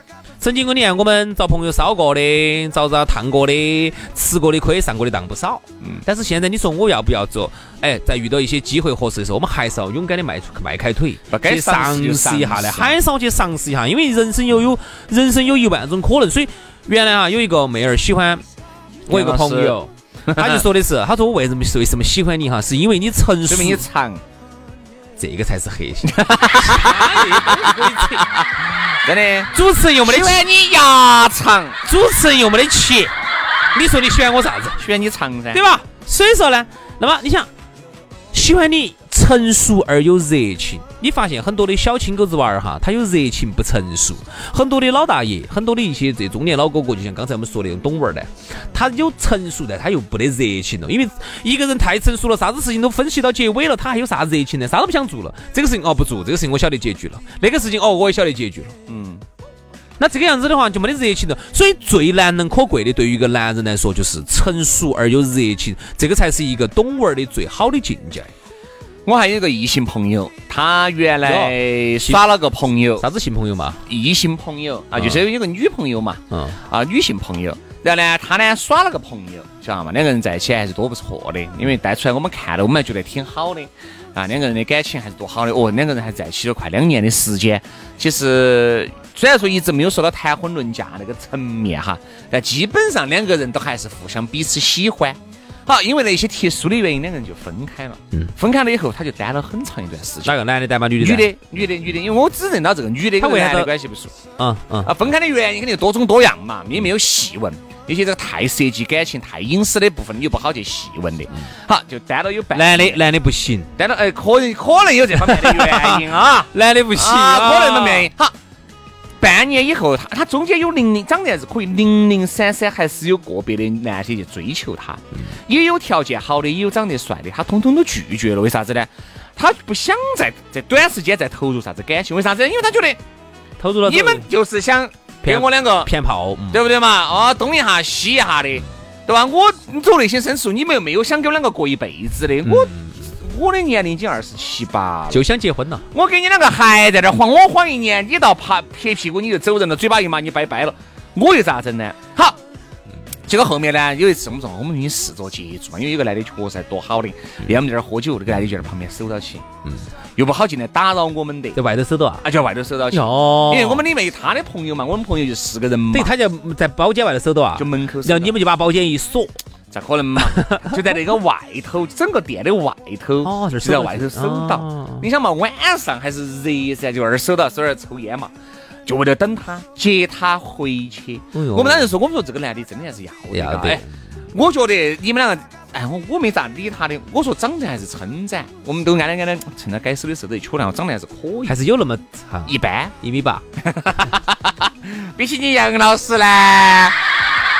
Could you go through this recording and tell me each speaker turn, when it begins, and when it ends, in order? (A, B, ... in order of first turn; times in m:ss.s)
0:00.4-0:18.4 A
0:11.3-0:13.0 B
0:19.1-0:23.8 A
0:19.1-0:19.8 B
0:20.3-0:20.6 B
0:23.5-0:24.2 B
0:25.2-0:28.3 A
0:26.1-0:31.8 B
0:29.5-0:30.4 A
0:31.8-0:33.1 A
0:33.8-0:34.8 A
0:34.8-0:35.6 B
0:35.5-0:37.5 A
0:38.3-0:58.8 A
0:58.9-0:59.2 B
1:00.0-1:08.3 A
1:09.1-1:13.1 B
1:11.2-1:12.2 A
1:13.0-1:13.8 A
1:13.9-1:40.4 B
1:15.0-1:15.2 A
1:16.3-1:16.6 A
1:40.2-1:41.4 A
1:41.0-1:44.2 B
1:43.2-1:43.7 A
1:44.4-1:45.0 A
1:44.8-1:53.0 B
1:52.5-1:53.7 A
1:53.8-1:58.4 B
1:55.2-1:58.1 A
1:59.2-2:13.0 B
2:13.6-2:14.3 A
2:13.8-2:15.9 B
2:15.2-2:16.6 A
2:16.5-2:25.3 B
2:22.4-2:23.0 A
2:25.1-2:25.9 A
2:25.9-2:32.4 B
2:33.3-2:39.4 B
2:40.2-2:41.6 B
2:41.6-2:42.3 A
2:42.2-2:46.1 B
2:42.9-2:43.8 A
2:45.9-2:49.4 A
2:47.6-2:48.4 B
2:49.7-2:58.3 B
2:50.3-2:50.7 A
2:53.2-2:55.1 A
2:58.8-3:11.6 B
3:01.3-3:01.9 A
3:03.3-3:03.9 A
3:11.5-3:13.4 A
3:12.5-3:13.0 B
3:13.6-3:17.0 B